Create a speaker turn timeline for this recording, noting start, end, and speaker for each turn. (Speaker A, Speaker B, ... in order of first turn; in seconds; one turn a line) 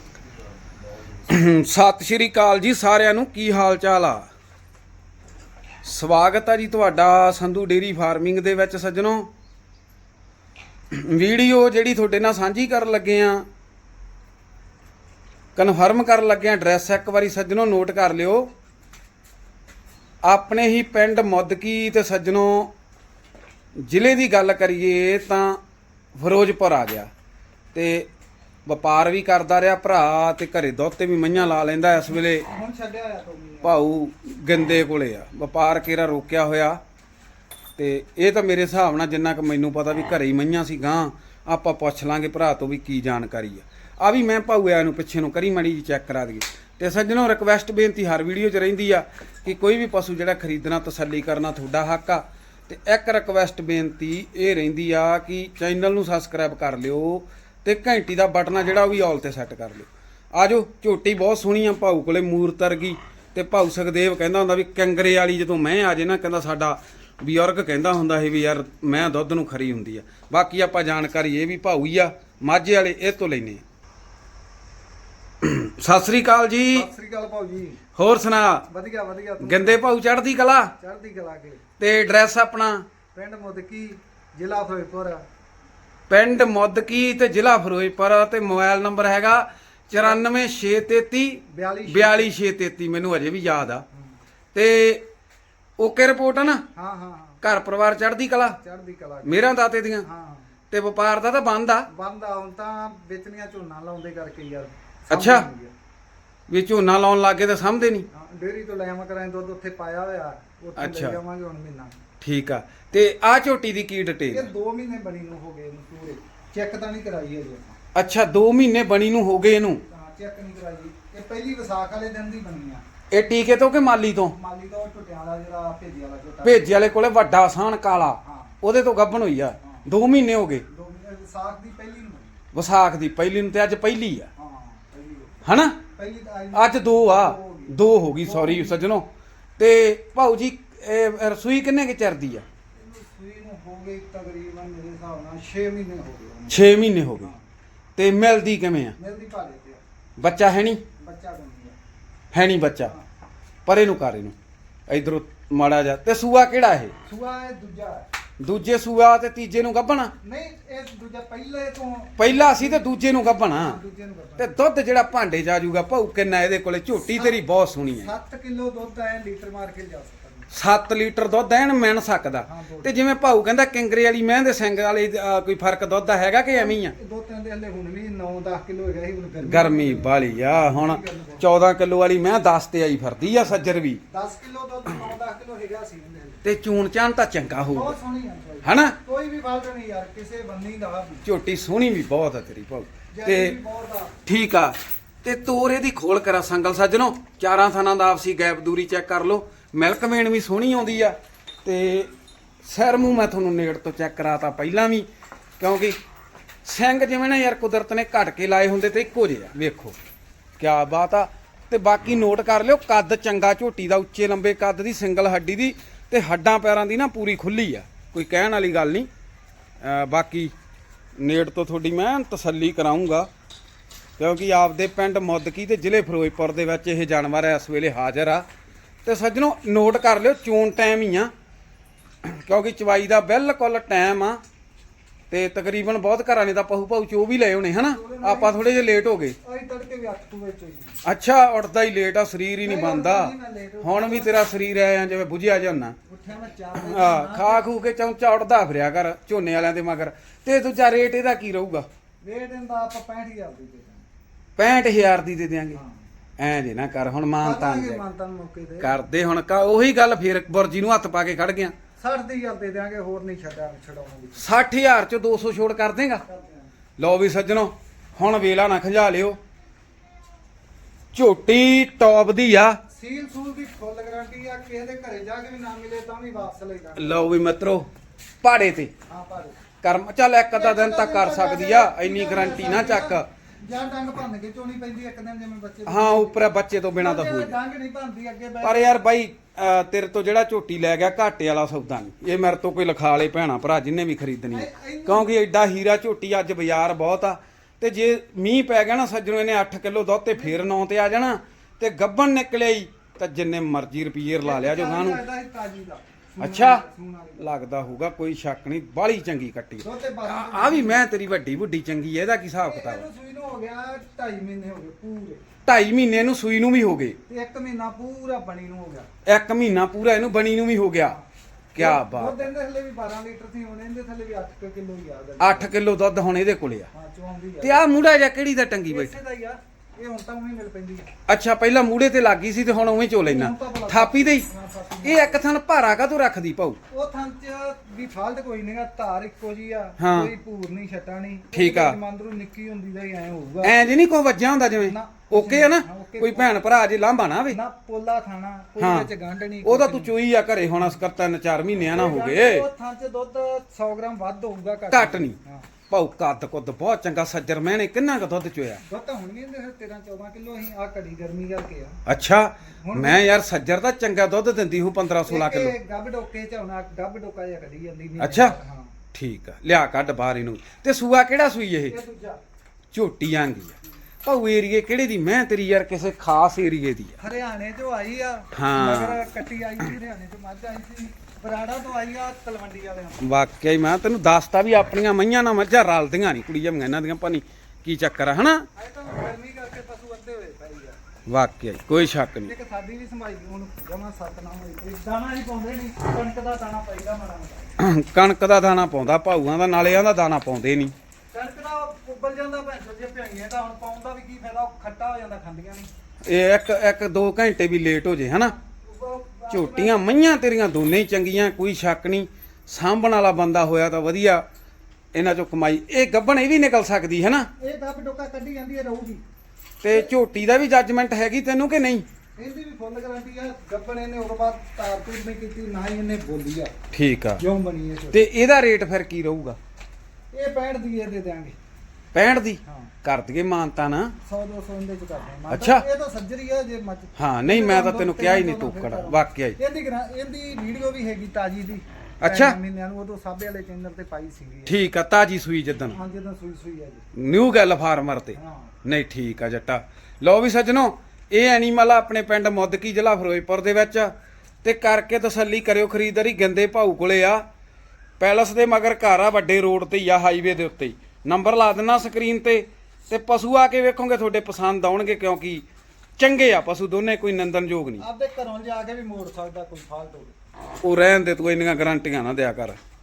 Speaker A: 1.2-4.3
Speaker A: 5.8-9.3
Speaker A: 10.9-13.4
Speaker A: 15.6-18.5
Speaker A: 20.2-22.7
Speaker A: 23.8-25.6
Speaker A: 26.1-27.1
Speaker A: 27.7-28.1
Speaker A: 28.6-32.4
Speaker B: 31.3-33.8
Speaker A: 33.6-36.8
Speaker A: 37.8-73.6
Speaker A: 75.4-76.9
Speaker B: 76.7-77.8
Speaker A: 78.0-78.7
Speaker B: 78.7-79.8
Speaker A: 79.4-80.7
Speaker B: 80.8-81.6
Speaker A: 81.8-82.8
Speaker B: 83.1-85.2
Speaker A: 86.1-93.8
Speaker B: 89.9-90.2
Speaker B: 91.5-92.3
Speaker A: 94.5-95.0
Speaker A: 95.8-96.6
Speaker B: 96.7-97.4
Speaker A: 97.4-98.6
Speaker B: 98.6-99.5
Speaker A: 99.2-100.0
Speaker B: 100.0-100.5
Speaker A: 100.7-101.9
Speaker B: 101.9-105.7
Speaker A: 105.1-105.5
Speaker A: 106.5-108.0
Speaker B: 108.1-112.0
Speaker A: 110.8-111.2
Speaker A: 112.2-114.5
Speaker B: 114.3-117.8
Speaker A: 117.9-119.8
Speaker B: 119.9-122.8
Speaker A: 123.1-124.3
Speaker B: 124.3-127.0
Speaker A: 126.4-130.6
Speaker B: 128.2-128.5
Speaker B: 130.7-132.4
Speaker A: 132.5-134.3
Speaker B: 134.4-135.4
Speaker A: 135.4-135.8
Speaker B: 135.9-138.9
Speaker A: 136.5-142.4
Speaker B: 142.7-146.7
Speaker A: 146.5-147.3
Speaker A: 147.9-148.9
Speaker B: 149.0-149.8
Speaker A: 150.2-150.8
Speaker B: 151.0-151.8
Speaker A: 152.3-152.9
Speaker A: 153.7-154.3
Speaker A: 154.9-156.9
Speaker B: 157.1-158.1
Speaker A: 158.4-160.1
Speaker B: 160.2-164.6
Speaker A: 162.2-163.8
Speaker A: 164.4-168.1
Speaker B: 167.0-170.5
Speaker A: 170.5-176.9
Speaker B: 172.4-172.9
Speaker B: 176.5-181.5
Speaker A: 179.4-184.0
Speaker B: 184.1-186.4
Speaker A: 186.4-187.9
Speaker B: 187.7-191.2
Speaker A: 188.6-188.9
Speaker A: 191.2-193.6
Speaker B: 193.1-194.1
Speaker A: 194.2-202.1
Speaker A: 202.6-205.1
Speaker A: 205.6-206.0
Speaker A: 206.6-209.9
Speaker A: 210.6-219.1
Speaker A: 219.8-220.5
Speaker A: 221.2-223.3
Speaker A: 224.2-228.4
Speaker A: 229.0-231.3
Speaker A: 232.2-234.4
Speaker A: 235.3-239.3
Speaker B: 237.8-238.8
Speaker B: 239.4-241.0
Speaker A: 241.0-245.9
Speaker B: 242.6-244.5
Speaker B: 246.1-247.6
Speaker A: 246.8-251.9
Speaker B: 252.2-254.0
Speaker A: 254.6-255.8
Speaker B: 255.7-256.0
Speaker A: 256.4-258.0
Speaker B: 257.4-258.9
Speaker A: 258.8-261.7
Speaker B: 262.0-264.4
Speaker A: 264.4-266.2
Speaker B: 266.2-266.7
Speaker A: 267.0-269.4
Speaker A: 271.1-272.8
Speaker B: 272.9-277.3
Speaker A: 276.9-277.9
Speaker A: 278.4-278.9
Speaker B: 279.1-279.6
Speaker A: 279.8-283.2
Speaker B: 280.5-288.9
Speaker A: 285.9-287.5
Speaker A: 288.6-305.2
Speaker B: 294.5-295.3
Speaker B: 300.4-300.7
Speaker B: 304.4-307.5
Speaker A: 306.4-306.8
Speaker A: 307.4-313.0
Speaker B: 309.8-311.0
Speaker B: 312.6-315.4
Speaker A: 315.6-317.2
Speaker B: 317.3-319.1
Speaker A: 319.2-321.2
Speaker A: 321.7-322.5
Speaker B: 321.8-325.7
Speaker A: 325.4-326.9
Speaker B: 326.9-327.9
Speaker A: 327.6-329.1
Speaker B: 328.9-331.1
Speaker A: 331.3-334.5
Speaker B: 333.2-335.4
Speaker A: 335.0-336.8
Speaker B: 336.9-343.8
Speaker A: 340.0-340.3
Speaker A: 341.5-342.0
Speaker A: 343.6-347.6
Speaker B: 344.8-346.6
Speaker B: 347.5-350.1
Speaker A: 348.8-349.1
Speaker A: 349.6-352.6
Speaker B: 351.9-355.7
Speaker A: 354.9-355.4
Speaker A: 355.9-358.8
Speaker B: 358.8-362.0
Speaker A: 362.1-365.7
Speaker B: 362.8-363.4
Speaker B: 365.2-368.9
Speaker A: 368.2-368.5
Speaker A: 369.1-371.9
Speaker B: 371.9-372.4
Speaker A: 372.9-377.1
Speaker B: 377.2-383.2
Speaker A: 378.5-379.3
Speaker A: 383.2-388.6
Speaker B: 388.8-391.0
Speaker A: 391.3-392.5
Speaker B: 392.4-397.7
Speaker A: 397.8-400.9
Speaker B: 401.3-405.9
Speaker A: 406.2-408.5
Speaker B: 408.7-410.0
Speaker A: 409.5-414.4
Speaker A: 415.1-417.5
Speaker B: 417.6-419.2
Speaker A: 419.8-422.1
Speaker B: 422.4-426.7
Speaker A: 426.9-427.4
Speaker B: 427.4-428.2
Speaker A: 428.1-429.6
Speaker B: 430.3-431.6
Speaker A: 432.1-434.1
Speaker B: 432.6-432.9
Speaker B: 434.2-444.8
Speaker A: 435.5-435.8
Speaker A: 437.1-439.6
Speaker A: 442.2-442.6
Speaker A: 444.6-446.0
Speaker B: 445.9-447.0
Speaker A: 447.1-457.4
Speaker B: 448.3-448.7
Speaker A: 458.2-465.6
Speaker A: 466.2-468.0
Speaker B: 468.0-470.3
Speaker A: 470.8-472.8